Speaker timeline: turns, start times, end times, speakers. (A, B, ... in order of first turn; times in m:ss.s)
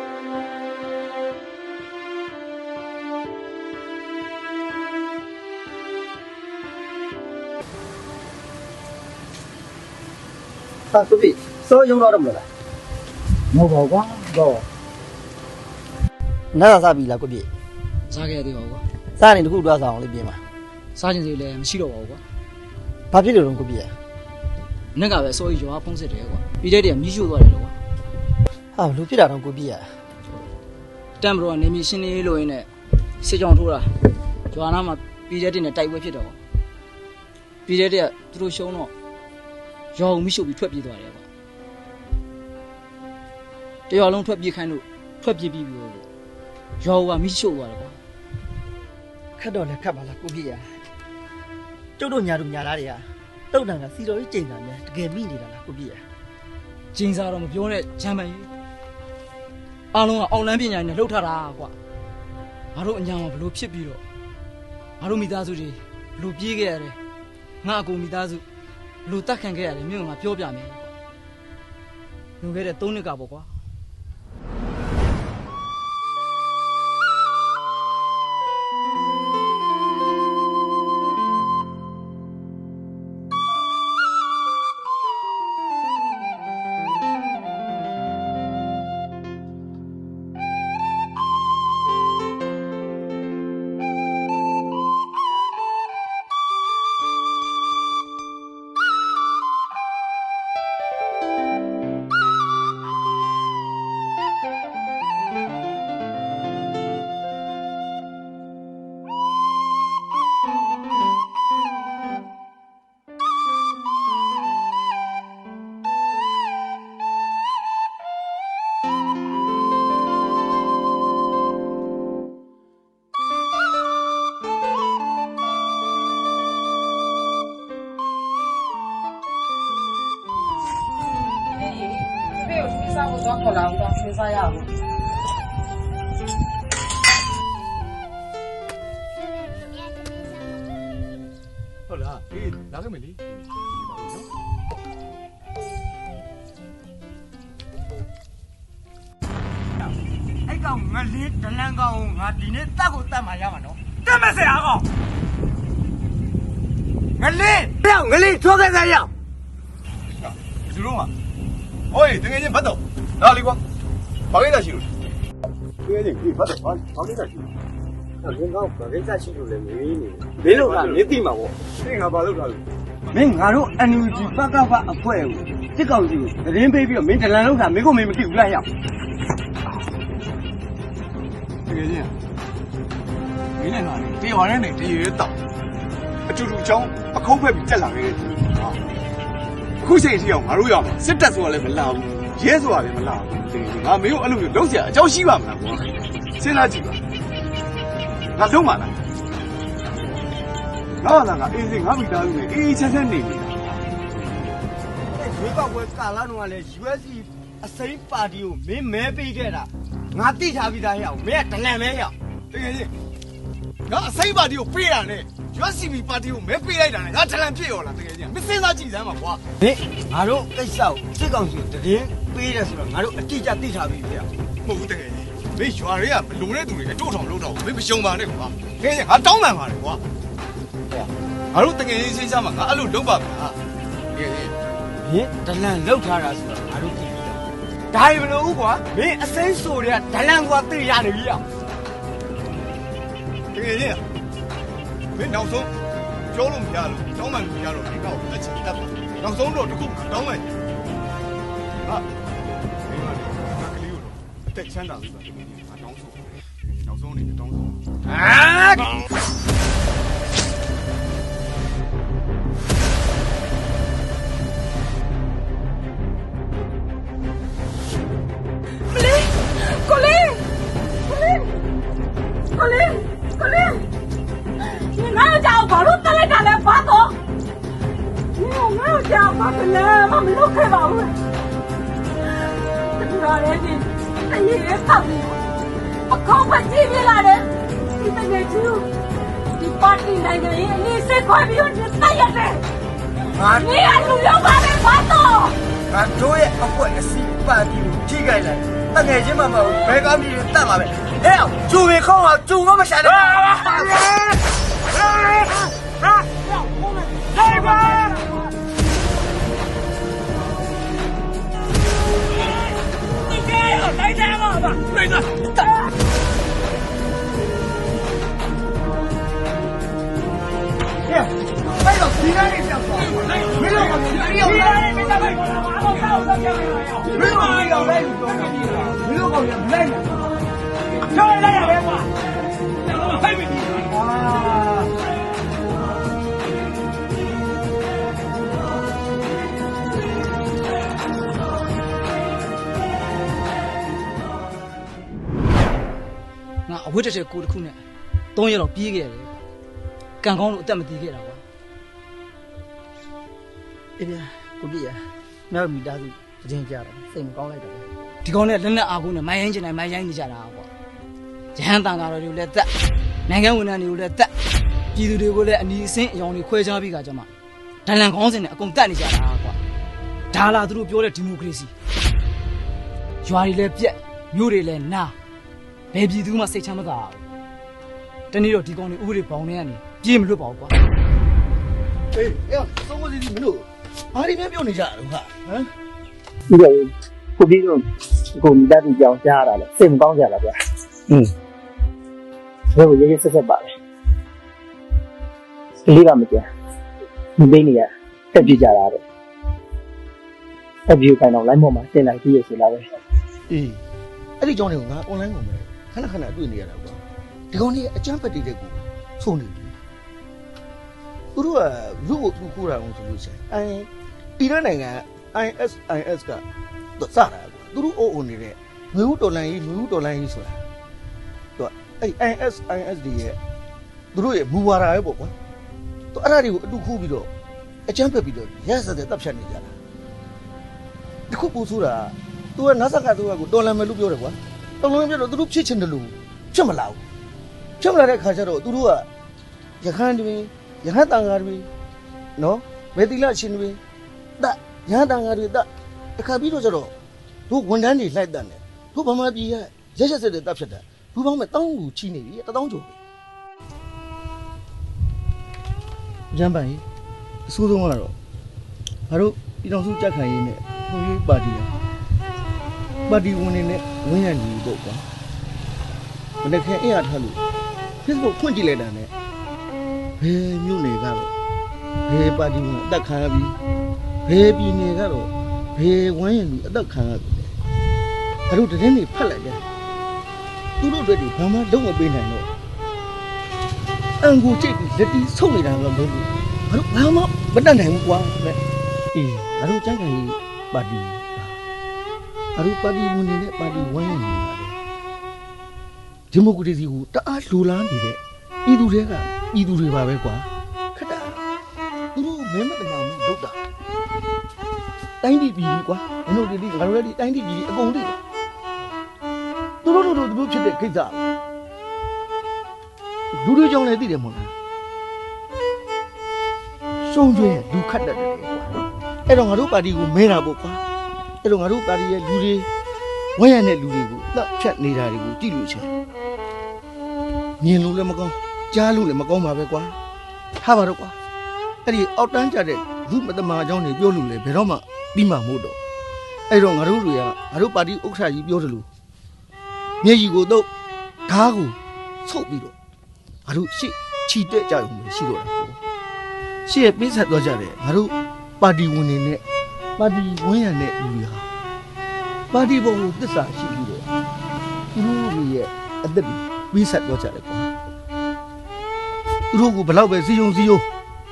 0:10.9-0:12.5 A
0:13.5-0:14.6 A
0:16.5-0:17.5 A
0:18.1-0:18.8 B
0:19.2-0:20.4 A
0:21.0-0:22.2 B
0:23.1-0:23.9 A
0:24.9-0:27.7 B
0:28.8-0:29.9 A
0:31.2-0:32.7 B
0:33.2-0:33.9 B
0:34.5-0:36.4 B
0:37.7-0:38.9 B
0:39.9-0:41.3 B
0:43.9-0:46.0 B
0:46.8-0:48.0 B
0:49.4-0:50.7 A
0:52.0-0:56.0 A
0:56.9-0:58.5 B
0:59.9-1:01.8 B
1:02.7-1:04.0 B
1:05.0-1:07.0 B
1:07.6-1:08.4 B
1:09.0-1:10.9 B
1:12.4-1:13.5 B
2:21.9-2:24.3 C
2:30.4-2:34.8 D
2:37.2-2:39.1 D
2:40.2-2:41.1 C
2:41.9-2:43.6 C
2:44.3-2:44.9 C
2:45.9-2:47.4 C
2:48.2-2:51.6 D
2:50.5-2:51.2 C
2:51.7-2:52.6 C
2:53.1-2:58.7 D
3:01.7-3:02.1 C
3:03.6-3:05.4 C
3:06.3-3:08.8 C
3:09.8-3:17.0 C
3:18.4-3:19.0 C
3:21.0-3:23.8 C
3:25.1-3:32.1 D
3:32.5-3:32.9 C
3:33.9-3:39.4 C
3:39.6-3:44.3 D
3:44.6-3:50.0 C
3:51.0-3:53.6 C
3:54.1-3:54.6 C
3:55.0-4:01.4 D
4:03.5-4:04.0 C
4:05.1-4:05.7 C
4:06.3-4:10.5 C
4:11.8-4:12.1 C
4:12.8-4:17.8 C
4:28.9-4:30.4 E
4:31.1-4:31.5 E
4:32.6-4:33.8 E
4:34.8-4:37.1 E
4:38.4-4:41.2 E
4:43.0-4:45.4 E
4:46.1-4:47.5 E
4:48.0-4:48.9 E
4:49.6-4:52.6 E
4:53.4-4:53.7 D
4:53.4-4:55.6 E
4:55.9-5:04.4 D
5:04.9-5:08.4 D
5:21.8-5:23.7 D
5:22.2-5:23.0 A
5:23.7-5:25.1 A
5:24.3-5:24.8 D
5:26.6-5:30.0 D
5:27.4-5:28.2 A
5:29.1-5:29.9 A
5:33.8-5:34.9 D
5:46.7-5:47.8 B
5:48.4-5:49.4 B
5:50.2-5:51.4 B
5:54.0-5:57.9 A
5:58.2-6:00.7 B
6:01.6-6:02.7 B
6:03.3-6:04.3 B
6:04.9-6:07.3 B
6:07.8-6:09.6 B
6:10.3-6:11.7 B
6:13.2-6:15.1 B
6:15.9-6:17.2 B
6:18.3-6:20.8 B
6:22.1-6:25.7 F
6:26.5-6:31.3 G
6:32.7-6:33.8 G
6:35.8-6:36.5 G
6:37.4-6:39.0 G
6:40.9-6:42.9 G
6:43.5-6:43.8 F
6:44.4-6:49.8 F
6:51.4-6:56.4 F
6:57.0-7:00.6 F
7:01.6-7:03.4 F
7:04.1-7:05.3 F
7:06.1-7:07.3 F
7:07.9-7:09.8 F
7:11.3-7:17.0 F
7:17.8-7:19.1 F
7:19.8-7:21.7 F
7:22.4-7:23.8 F
7:24.4-7:26.9 F
7:27.5-7:33.0 F
7:36.3-7:36.8 F
7:37.5-7:38.2 F
7:39.1-7:41.7 F
7:43.1-7:45.1 F
7:46.4-7:47.4 F
7:48.0-7:49.1 F
7:50.2-7:51.3 F
7:52.1-7:53.6 F
7:54.3-7:57.5 F
7:58.5-7:59.6 F
8:00.8-8:02.5 F
8:04.2-8:08.6 F
8:09.1-8:11.6 F
8:12.6-8:14.8 F
8:16.3-8:21.4 F
8:22.1-8:23.6 F
8:25.2-8:28.2 F
8:29.8-8:31.3 F
8:33.3-8:34.5 F
8:37.0-8:38.7 F
8:39.3-8:40.8 F
8:41.4-8:42.7 F
8:43.4-8:45.9 F
8:47.6-8:50.0 F
8:50.6-8:51.2 F
8:51.8-8:55.8 F
8:56.5-8:58.9 F
9:00.0-9:00.7 F
9:01.3-9:02.8 F
9:03.5-9:05.8 F
9:06.7-9:09.4 F
9:10.0-9:11.5 F
9:12.5-9:14.1 F
9:14.9-9:17.7 F
9:19.5-9:20.9 F